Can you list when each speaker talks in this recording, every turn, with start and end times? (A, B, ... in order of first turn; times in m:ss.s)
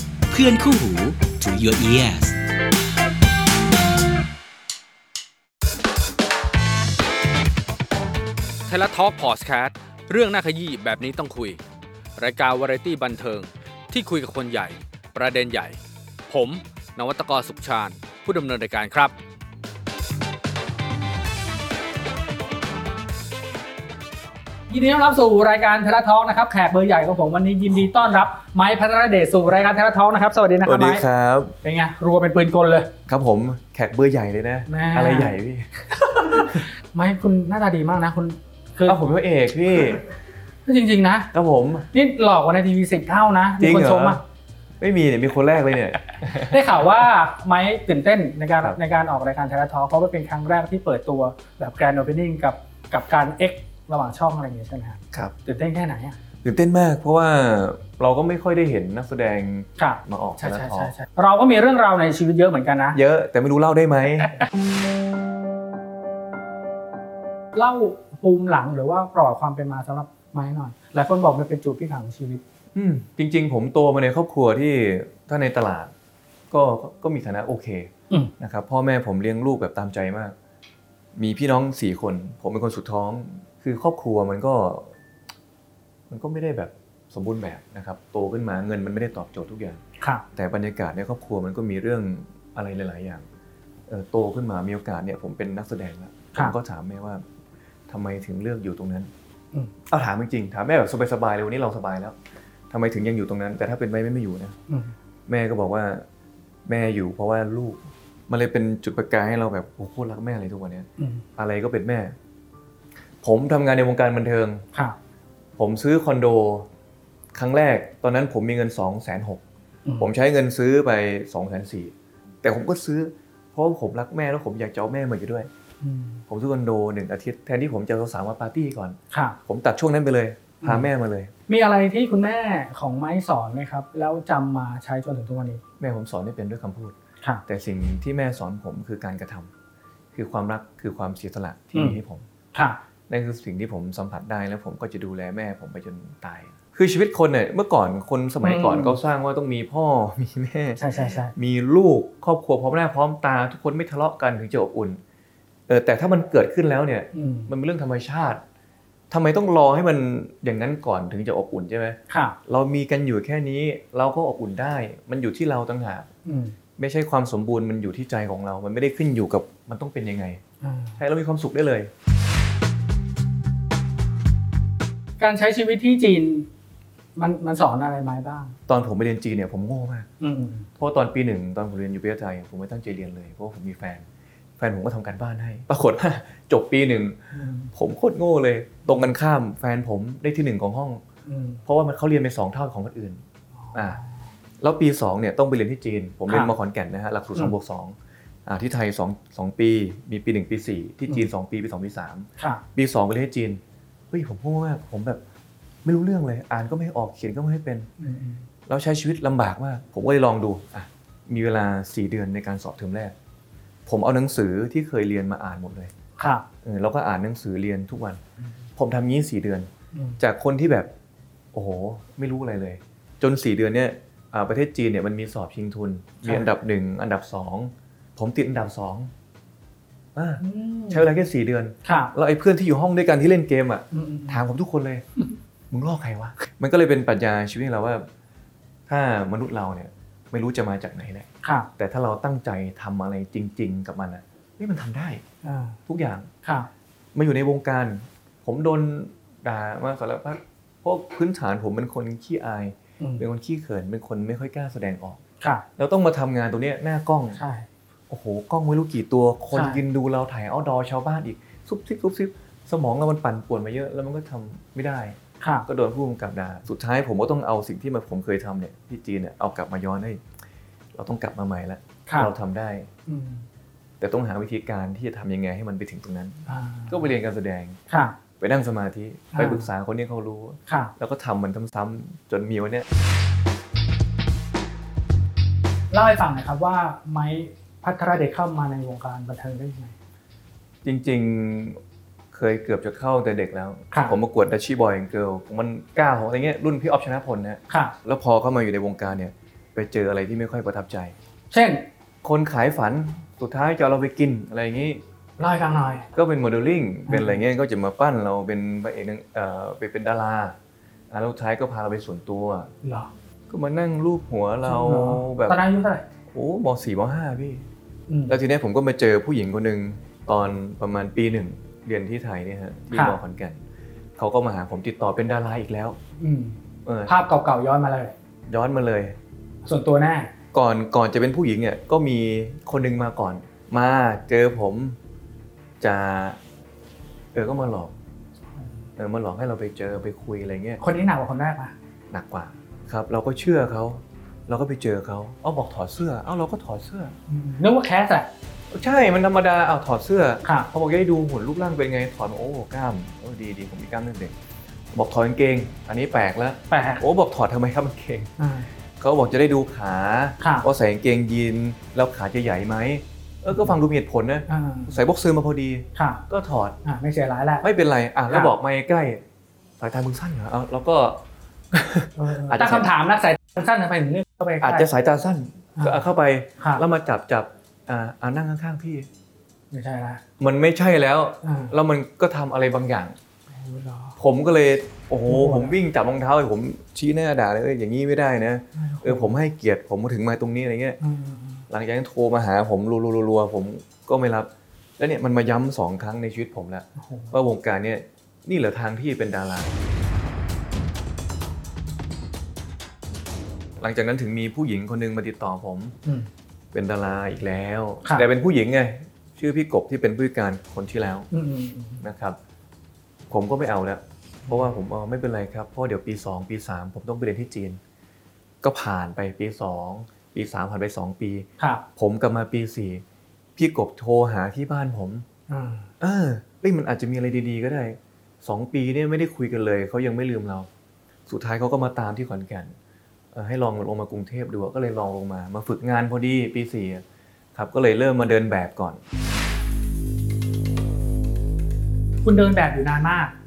0:00.3-0:02.4 A
0:08.7-0:11.6 B
0:12.2-0:15.8 B
0:16.3-0:19.1 B
0:24.7-0:31.0 C
0:30.6-0:31.6 D
0:31.6-0:32.9 C
0:33.1-0:36.7 D
0:34.7-0:35.4 C
0:36.0-0:39.1 C
0:38.8-0:40.0 D
0:40.7-0:41.3 C
0:41.3-0:41.9 D
0:41.9-0:44.2 C
0:43.6-0:44.2 D
0:44.8-0:46.6 D
0:46.5-0:56.2 C
0:55.1-0:55.4 D
0:56.4-1:00.9 D
0:59.8-1:03.0 C
1:02.9-1:04.4 D
1:07.5-1:12.4 C
1:12.8-1:15.9 D
1:16.5-1:20.4 D
1:21.2-1:24.9 D
1:26.1-1:29.8 D
1:30.0-1:30.2 C
1:30.3-1:33.2 D
1:33.9-1:37.2 D
1:37.9-1:39.1 D
1:39.9-1:42.2 D
1:42.7-1:44.6 D
1:44.7-1:44.9 C
1:45.3-1:46.1 D
1:46.7-1:52.2 D
1:51.0-1:51.2 C
1:53.2-1:54.6 D
1:55.6-1:56.7 D
1:57.3-1:59.4 D
2:00.0-2:05.5 D
2:05.8-2:06.2 C
2:06.3-2:11.3 D
2:09.1-2:09.4 C
2:10.6-2:10.9 C
2:11.5-2:15.6 C
2:15.8-2:19.5 D
2:20.1-2:22.2 D
2:22.5-2:22.8 C
2:23.1-2:35.0 D
2:28.4-2:29.0 C
2:30.8-2:31.3 C
2:35.7-2:38.4 D
2:37.1-2:37.5 C
2:39.1-2:46.1 D
2:42.1-2:42.4 C
2:46.3-2:46.6 C
2:46.8-2:50.4 D
2:50.6-2:51.0 C
2:51.0-2:51.9 D
2:55.2-2:56.5 C
2:57.2-2:58.6 C
2:58.7-3:00.1 D
3:00.2-3:00.7 C
3:00.8-3:04.1 D
3:04.6-3:11.0 D
3:07.3-3:07.7 C
3:11.3-3:11.6 C
3:11.7-3:13.2 D
3:13.6-3:14.2 C
3:13.7-3:14.0 D
3:14.6-3:25.2 D
3:22.4-3:22.6 C
3:25.8-3:27.9 D
3:28.0-3:28.4 C
3:28.7-3:33.1 D
3:33.9-3:35.9 D
3:36.2-3:36.5 C
3:36.6-3:38.2 D
3:38.8-3:40.9 D
3:39.9-3:40.2 C
3:41.5-3:49.1 D
3:50.2-3:55.1 D
3:50.4-3:51.1 C
3:51.8-3:52.1 C
3:53.9-3:54.4 C
3:55.7-3:58.1 D
3:58.9-4:05.2 D
4:01.4-4:01.7 C
4:05.4-4:05.8 C
4:05.9-4:06.3 D
4:06.4-4:06.7 C
4:07.1-4:15.2 D
4:15.8-4:17.4 D
4:17.4-4:17.7 C
4:18.1-4:30.2 D
4:19.5-4:19.8 C
4:25.4-4:25.7 C
4:30.9-4:32.9 D
4:32.1-4:32.3 C
4:33.1-4:33.5 C
4:34.0-4:37.8 D
4:36.5-4:37.0 C
4:37.9-4:38.2 C
4:38.4-4:42.9 D
4:39.3-4:39.7 C
4:40.7-4:40.9 C
4:45.9-4:50.0 C
4:50.8-4:51.8 D
4:52.3-5:01.2 D
4:53.9-4:54.2 C
4:57.7-4:58.0 C
5:01.5-5:01.8 C
5:02.2-5:05.0 D
5:05.4-5:06.1 C
5:06.2-5:10.6 D
5:07.1-5:07.4 C
5:11.1-5:12.7 D
5:12.8-5:13.1 C
5:13.5-5:15.6 D
5:14.7-5:16.0 C
5:16.3-5:17.6 D
5:18.1-5:18.4 C
5:18.3-5:23.6 D
5:22.9-5:23.2 C
5:24.2-5:26.0 D
5:26.2-5:28.2 C
5:26.8-5:27.1 D
5:28.5-5:29.2 D
5:29.6-5:30.3 C
5:30.5-5:35.0 D
5:35.8-5:36.4 D
5:37.3-5:37.9 D
5:39.0-5:40.8 D
5:40.8-5:41.8 C
5:42.1-5:47.2 D
5:47.3-5:48.3 C
5:48.7-5:54.3 D
5:54.9-5:58.3 D
5:56.7-5:57.0 C
5:58.4-5:58.7 C
5:59.0-6:06.8 D
6:00.4-6:00.7 C
6:04.5-6:04.9 C
6:06.0-6:06.2 C
6:06.8-6:07.7 C
6:07.6-6:09.2 D
6:09.8-6:12.9 D
6:12.2-6:14.9 C
6:14.6-6:19.1 D
6:19.7-6:20.2 C
6:20.4-6:23.2 D
6:21.4-6:21.7 C
6:23.5-6:24.2 C
6:24.2-6:31.0 D
6:25.3-6:25.8 C
6:28.8-6:29.4 C
6:31.0-6:31.6 C
6:31.7-6:39.7 D
6:37.0-6:37.3 C
6:43.8-6:46.0 D
6:46.7-6:51.3 D
6:51.3-6:52.0 C
6:52.0-6:52.4 D
6:53.3-6:57.8 D
6:58.6-7:03.0 D
7:01.6-7:01.8 C
7:03.6-7:05.3 D
7:05.5-7:05.9 C
7:06.0-7:10.7 D
7:11.3-7:12.8 D
7:13.3-7:17.0 D
7:17.5-7:19.0 D
7:22.2-7:23.3 C